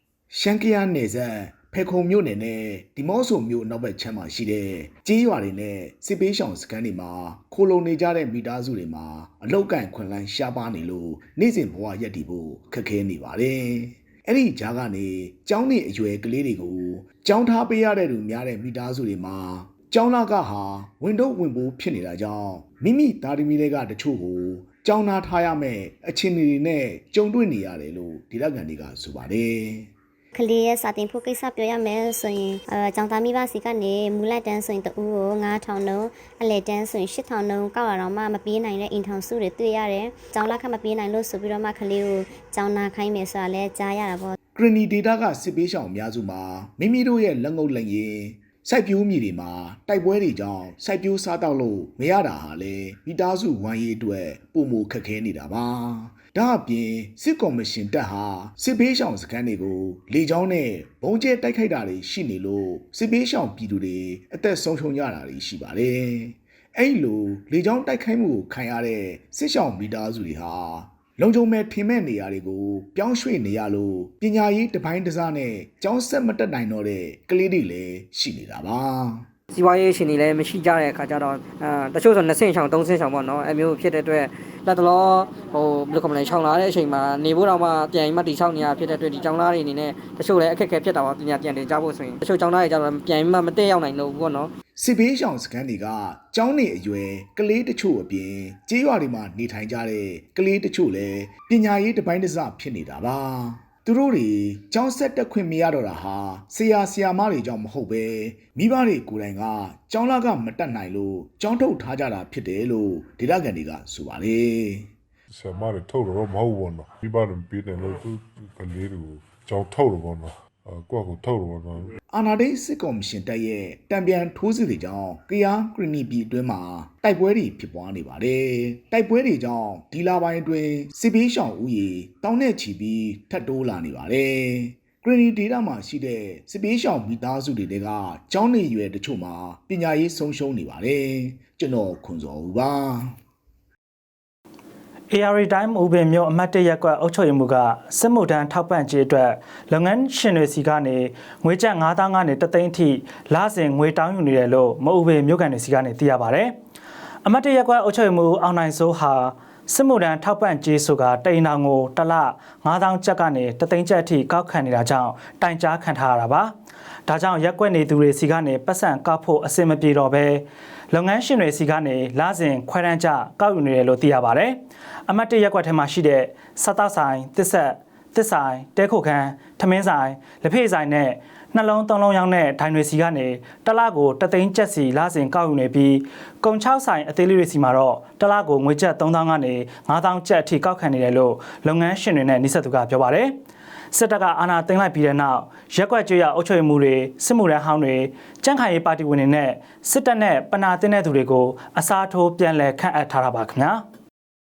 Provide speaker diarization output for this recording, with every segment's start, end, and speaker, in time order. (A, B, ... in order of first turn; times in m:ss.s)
0:00.3-0:29.9 A
0:30.3-0:44.4 B
0:44.6-1:19.2 A
1:19.5-1:34.5 C
1:34.8-1:54.9 A
1:55.3-2:02.0 D
2:02.1-2:23.1 A
2:25.1-2:36.5 E
2:37.2-2:46.5 E
2:47.1-3:13.3 E
3:13.9-3:23.8 E